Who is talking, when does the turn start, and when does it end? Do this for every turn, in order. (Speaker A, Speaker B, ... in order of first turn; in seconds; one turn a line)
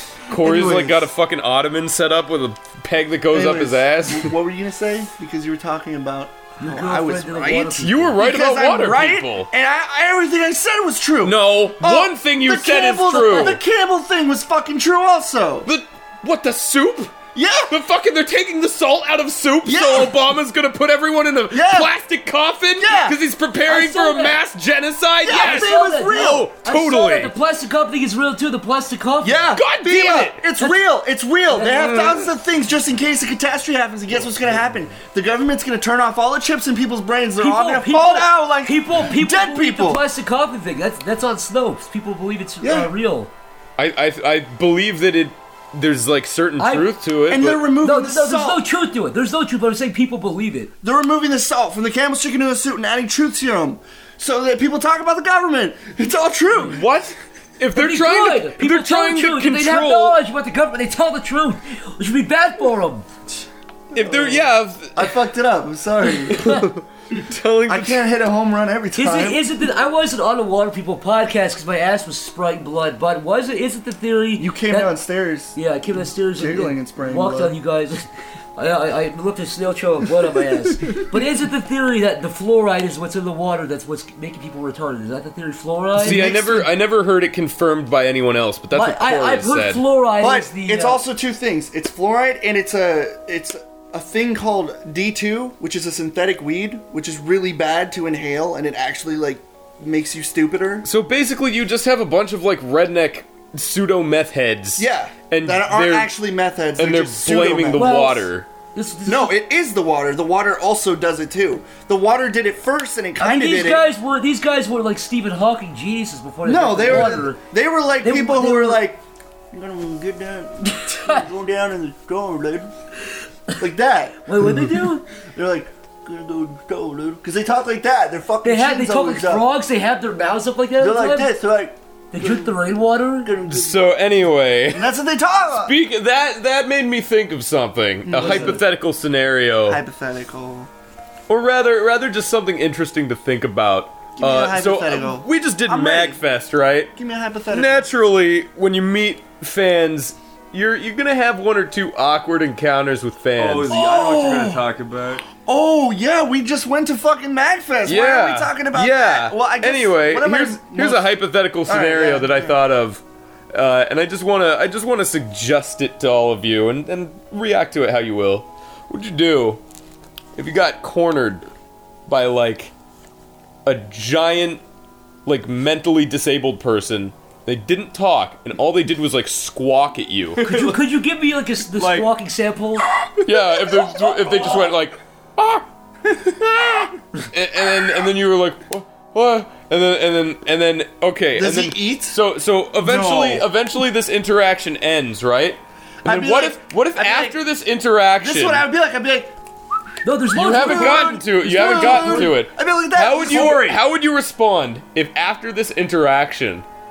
Speaker A: 0.3-4.4
Speaker B: 0.3-1.1
Speaker B: 3.3-15.7
Speaker C: 6.6-8.2
Speaker A: 7.8-9.5
Speaker A: 11.2-13.6
Speaker A: 15.7-17.2
Speaker B: 17.3-17.7
Speaker A: 17.7-27.3
Speaker B: 19.6-20.2
Speaker B: 21.5-21.9
Speaker B: 22.8-23.2
Speaker C: 23.7-24.4
Speaker B: 25.2-26.5
Speaker C: 25.3-29.5
Speaker B: 29.2-40.0
Speaker A: 29.6-30.4
Speaker C: 31.5-32.0
Speaker A: 31.9-32.2
Speaker C: 37.4-43.3
Speaker B: 42.6-42.9
Speaker A: 43.8-47.7
Speaker C: 46.6-47.0
Speaker B: 47.3-48.6
Speaker C: 47.8-50.7
Speaker B: 50.8-56.8
Speaker A: 56.6-60.2
Speaker C: 57.7-63.1
Speaker A: 63.9-65.2
Speaker B: 64.0-66.5
Speaker A: 66.2-68.1
Speaker C: 66.4-66.7
Speaker B: 67.7-69.5
Speaker C: 69.0-75.0
Speaker B: 74.4-75.6
Speaker C: 75.5-86.3
Speaker B: 76.3-77.6
Speaker B: 86.0-86.7
Speaker A: 86.0-89.8
Speaker C: 88.7-91.0
Speaker B: 90.2-100.9
Speaker A: 100.8-106.1
Speaker B: 104.8-108.2
Speaker A: 106.8-108.5
Speaker C: 107.8-109.4
Speaker B: 109.0-113.9
Speaker C: 113.2-117.4
Speaker B: 116.4-122.7
Speaker C: 118.0-118.8
Speaker C: 120.7-121.2
Speaker B: 123.6-129.5
Speaker C: 124.2-125.0
Speaker C: 128.4-131.3
Speaker B: 130.8-132.6
Speaker C: 132.1-133.3
Speaker B: 133.2-134.2
Speaker A: 133.5-134.9
Speaker B: 134.7-135.8
Speaker A: 135.6-139.8
Speaker B: 138.1-138.7
Speaker C: 138.2-138.6
Speaker B: 139.7-140.7
Speaker A: 141.3-146.9
Speaker B: 144.2-146.2
Speaker B: 147.0-147.9
Speaker A: 147.5-153.8
Speaker D: 153.4-155.3
Speaker B: 153.7-154.6
Speaker B: 155.4-162.6
Speaker A: 157.8-169.6
Speaker A: 170.4-171.4
Speaker A: 172.1-172.7
Speaker A: 173.7-174.6
Speaker A: 175.3-180.4
Speaker D: 180.4-180.8
Speaker C: 180.4-182.8
Speaker D: 181.7-182.1
Speaker A: 183.2-185.7
Speaker D: 183.7-184.7
Speaker A: 187.2-198.7
Speaker B: 191.3-192.2
Speaker D: 192.8-193.5
Speaker B: 196.0-197.4
Speaker B: 198.2-199.3
Speaker C: 200.0-202.4
Speaker B: 200.3-203.8
Speaker A: 200.3-206.7
Speaker D: 203.2-203.6